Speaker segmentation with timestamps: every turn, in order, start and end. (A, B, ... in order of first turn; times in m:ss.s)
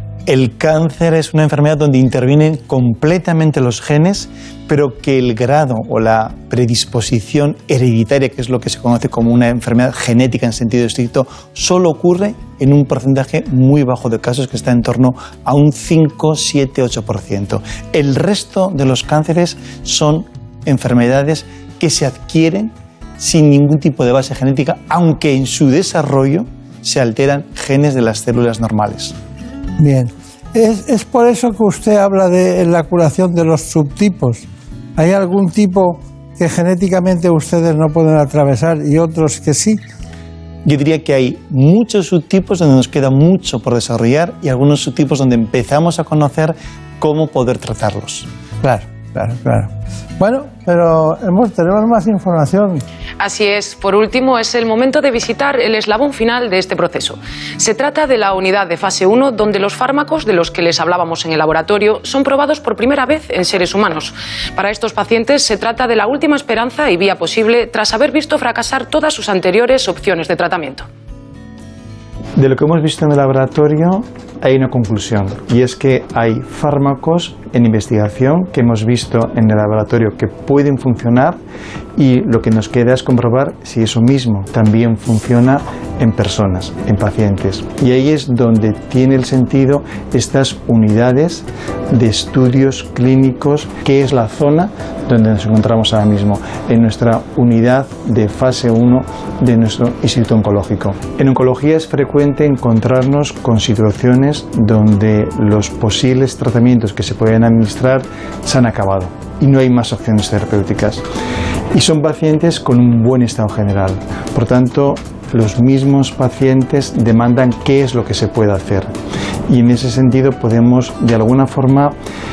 0:00.3-0:29.1 A
0:29.8-0:34.4 B
0:35.0-0:39.8 B
0:40.6-0:48.3 A
0:48.6-0:52.8 B
0:53.2-1:10.8 C
1:12.4-1:21.4 A
1:22.0-1:51.0 A
1:51.7-1:58.9 A
1:59.5-2:01.9 A